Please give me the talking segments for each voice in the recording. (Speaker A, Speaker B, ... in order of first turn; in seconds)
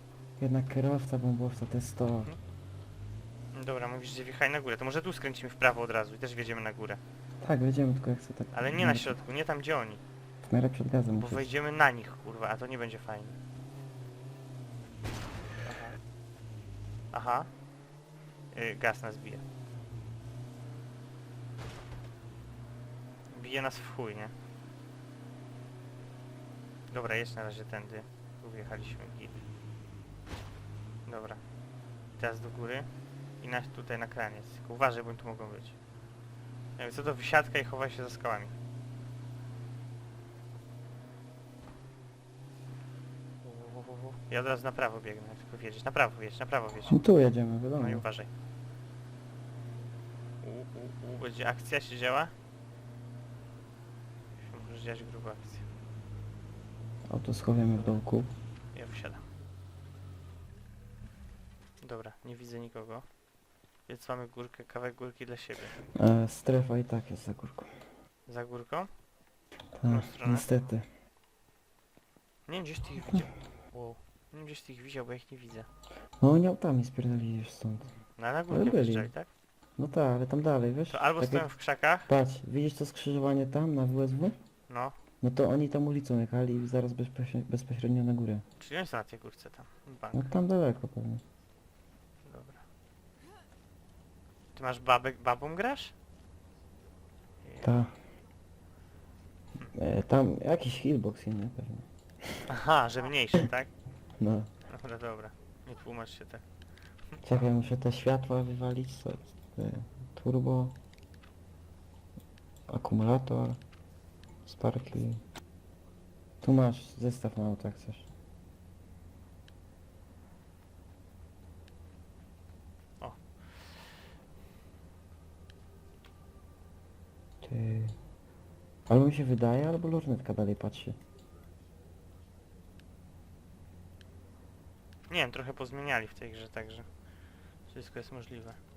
Speaker A: 0.4-2.3, 7.4-9.2, 10.4-11.5, 46.9-48.0, 57.1-58.3, 65.9-67.7, 69.7-70.8, 76.2-77.9, 78.5-79.1, 79.8-81.5, 82.1-84.3, 85.2-88.4, 90.1-91.2, 97.6-98.0, 99.7-102.5, 104.2-104.5, 107.2-110.8, 112.7-113.6, 114.5-115.2, 116.4-118.1, 127.4-128.0, 128.9-131.0
Speaker B: 3.5-7.0, 8.5-10.0, 11.2-13.4, 17.1-17.5, 18.5-19.4, 23.3-24.3, 26.9-29.4, 31.1-31.4, 32.2-32.9, 33.4-35.8, 36.8-38.5, 43.4-47.0, 47.8-48.3, 50.4-52.3, 54.5-55.6, 58.7-59.2, 61.8-63.0, 63.9-65.8, 68.3-68.9, 69.9-70.5, 72.5-75.7, 78.0-79.3, 80.9-82.1, 84.7-85.0, 88.6-90.3, 92.2-92.6, 94.5-95.9, 97.4-97.7, 102.5-103.7, 104.7-106.4, 135.1-136.8, 137.7-138.6